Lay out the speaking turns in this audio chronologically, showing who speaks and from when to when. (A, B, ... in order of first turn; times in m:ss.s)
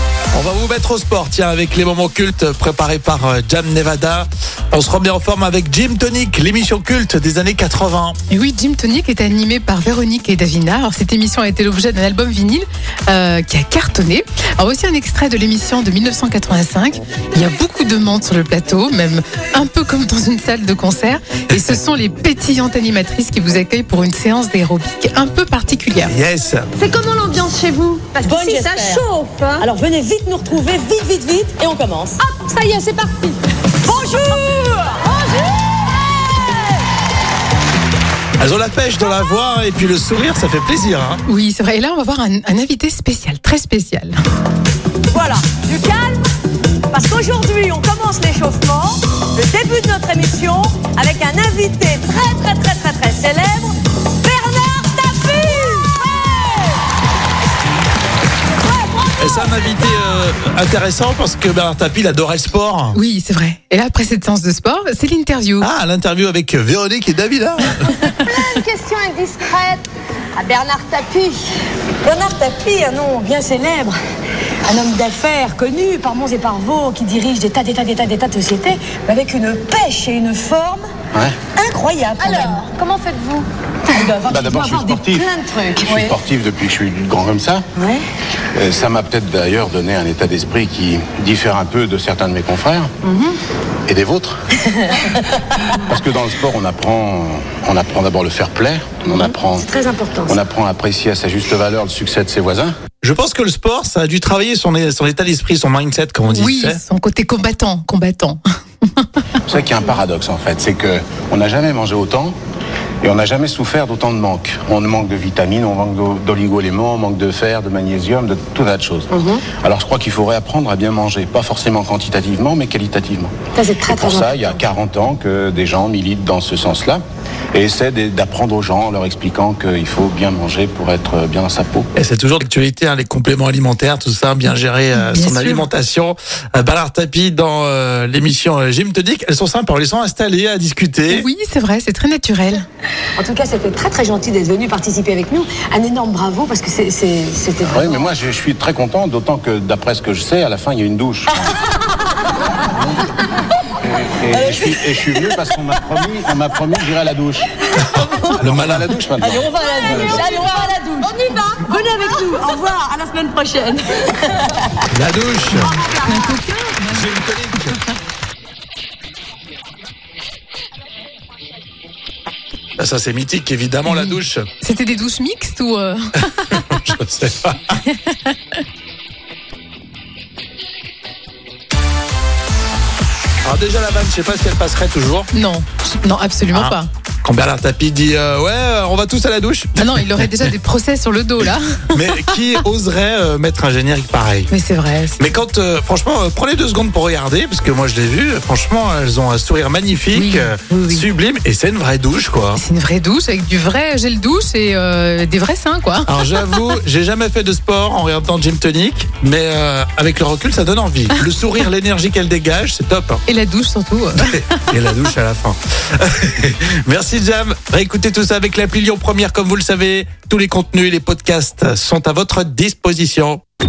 0:00.3-0:08.2 A
0:08.3-0:26.1 B
0:26.1-0:26.7 A
0:26.8-0:29.7 C
0:28.1-0:29.0 D
0:29.6-0:32.2 D
0:32.2-0:33.4 C
0:33.8-0:36.7 D
0:33.9-0:34.4 C
0:35.1-0:35.4 C
0:38.4-0:41.2 A
0:41.2-0:44.2 B
0:45.1-0:46.3 D
0:46.9-0:56.8 D
0:58.6-0:59.4 D
0:59.1-1:03.0 A
1:02.9-1:05.7 B
1:05.6-1:08.3 A
1:08.2-1:11.4 C
1:12.0-1:14.0 D
1:14.6-1:20.8 D
1:21.1-1:21.4 E
1:21.5-1:22.7 D
1:22.2-1:23.5 C
1:23.8-1:26.1 D
1:24.2-1:25.3 E
1:25.8-1:27.6 E
1:27.8-1:28.0 D
1:28.5-1:32.9 E
1:33.0-1:33.4 D
1:33.9-1:34.6 E
1:34.9-1:35.6 D
1:35.7-1:39.6 E
1:39.1-1:40.4 D
1:40.3-1:42.7 E
1:43.0-1:46.8 A
1:46.3-1:48.4 B
1:49.4-1:52.4 E
1:53.0-2:03.3 E
1:59.1-1:59.4 D
2:03.5-2:04.6 D
2:03.9-2:07.0 E
2:07.5-2:11.9 E
2:12.0-2:21.2 A
2:14.9-2:15.7 B
2:21.1-2:22.6 B
2:23.2-2:28.1 D
2:27.7-2:31.6 E
2:32.6-2:33.1 E
2:33.8-2:37.5 E
2:34.3-2:35.4 D
2:37.8-2:38.4 D
2:38.3-2:40.4 E
2:38.4-2:38.9 A
2:39.2-2:44.9 D
2:39.6-2:40.8 C
2:41.8-2:42.5 C
2:44.9-2:45.8 A
2:45.5-2:46.4 D
2:46.0-2:47.0 B
2:46.9-2:47.8 A
2:52.8-2:54.4 A
2:53.8-2:56.8 B
2:56.4-2:57.8 A
3:03.4-3:05.3 A
3:05.3-3:06.9 B
3:06.5-3:10.5 A
3:09.8-3:12.4 B
3:11.4-3:14.5 A
3:14.5-3:15.2 B
3:15.2-3:22.6 A
3:20.1-3:21.1 B
3:22.6-3:26.6 B
3:26.0-3:33.2 A
3:33.3-3:34.6 B
3:34.2-3:43.4 A